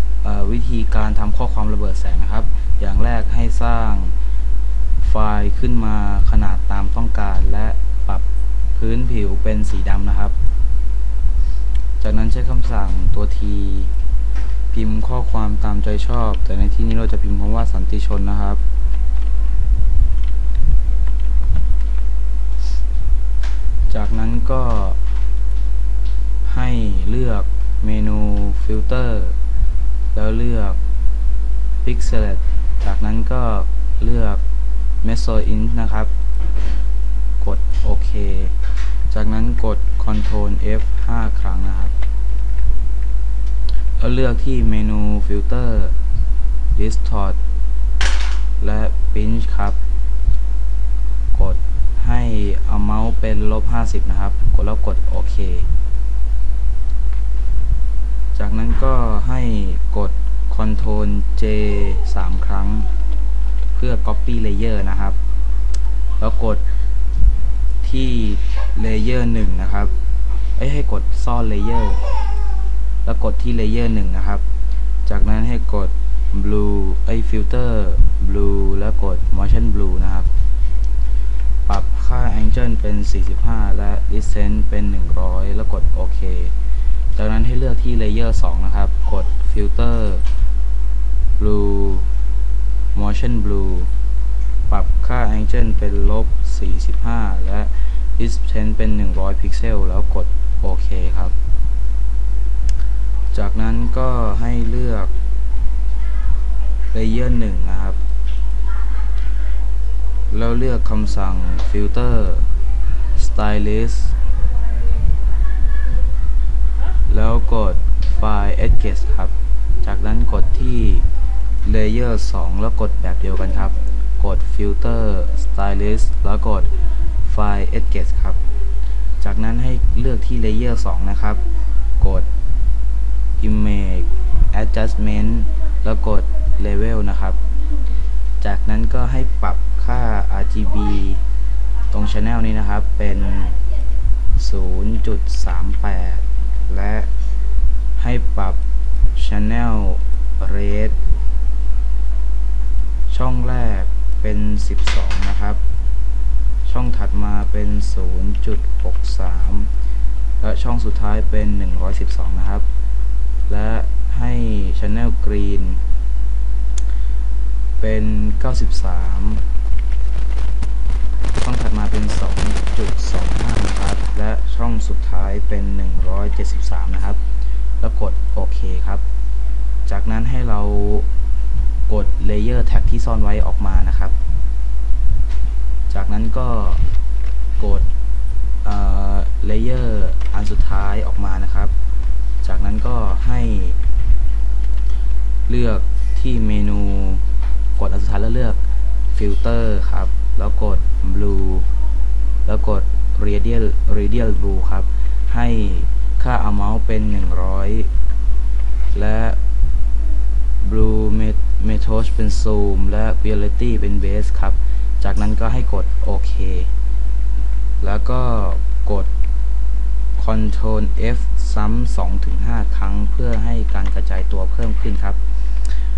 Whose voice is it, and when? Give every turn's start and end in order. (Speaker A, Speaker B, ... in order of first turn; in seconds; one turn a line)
Speaker A: 0.2-4.2
Speaker A: 5.0-8.2
Speaker A: 8.8-10.3
Speaker A: 12.0-13.9
Speaker A: 14.7-18.6
Speaker A: 23.9-25.0
Speaker A: 26.4-29.4
Speaker A: 30.1-30.8
Speaker A: 31.8-34.4
Speaker A: 35.0-36.1
Speaker A: 37.4-38.6
Speaker A: 39.1-41.9
Speaker A: 44.0-46.0
Speaker A: 46.8-47.4
Speaker A: 48.6-49.8
Speaker A: 51.3-55.7
Speaker A: 58.4-62.9
Speaker A: 63.8-65.2
Speaker A: 66.2-66.6
Speaker A: 67.8-69.9
Speaker A: 70.6-72.0
Speaker A: 73.0-74.4
Speaker A: 75.1-80.3
Speaker A: 81.7-86.5
Speaker A: 87.2-90.2
Speaker A: 91.4-92.1
Speaker A: 93.0-93.9
Speaker A: 94.7-101.3
Speaker A: 103.3-105.1
Speaker A: 106.9-108.0
Speaker A: 110.3-112.5
Speaker A: 113.2-114.2
Speaker A: 117.1-121.1
Speaker A: 121.7-126.7
Speaker A: 127.2-128.4
Speaker A: 129.2-131.4
Speaker A: 132.0-132.3
Speaker A: 133.4-137.4
Speaker A: 138.4-141.2
Speaker A: 141.9-143.6
Speaker A: 144.4-147.1
Speaker A: 148.0-148.6
Speaker A: 149.2-150.9
Speaker A: 153.1-155.6
Speaker A: 156.7-159.7
Speaker A: 160.4-162.7
Speaker A: 163.5-165.8
Speaker A: 167.8-169.4
Speaker A: 171.4-177.2
Speaker A: 177.8-179.0
Speaker A: 179.9-181.1
Speaker A: 181.9-184.2
Speaker A: 185.9-186.8
Speaker A: 187.6-187.9
Speaker A: 188.6-191.7
Speaker A: 192.4-193.8
Speaker A: 195.5-197.2
Speaker A: 197.8-198.6
Speaker A: 199.1-201.7
Speaker A: 202.5-207.9
Speaker A: 208.9-209.4
Speaker A: 210.6-216.7
Speaker A: 217.8-219.1
Speaker A: 220.2-225.8